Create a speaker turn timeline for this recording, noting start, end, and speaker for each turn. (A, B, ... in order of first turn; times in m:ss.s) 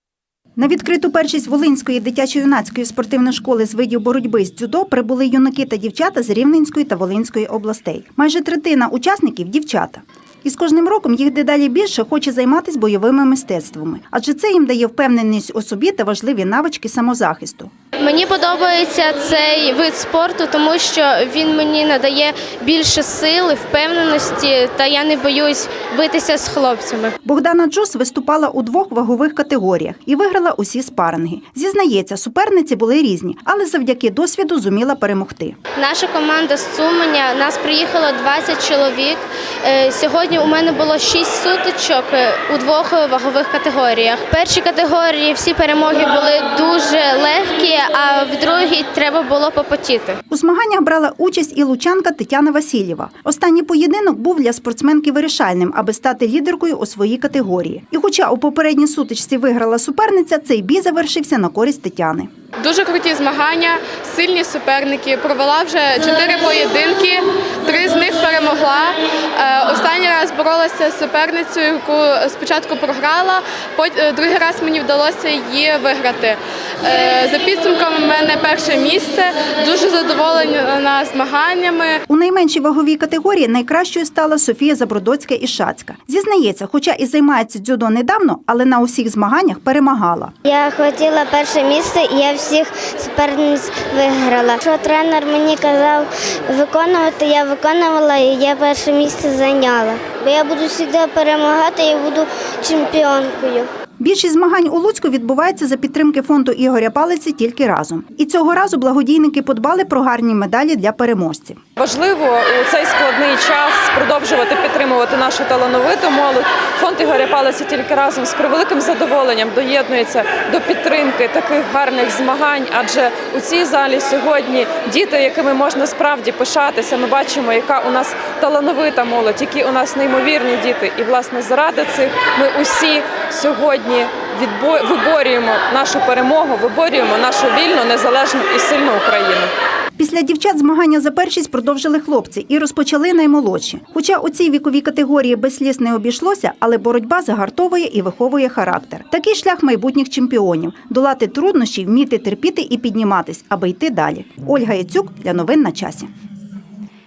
0:00.6-0:17.7 A
0:18.0-0:27.1 B
0:27.2-0:35.6 A
0:35.8-0:50.2 B
0:50.3-1:02.3 A
1:02.6-1:22.0 C
1:22.1-1:30.4 A
1:30.5-1:43.7 D
1:44.0-1:51.6 A
1:51.8-2:19.5 E
2:20.0-2:36.1 A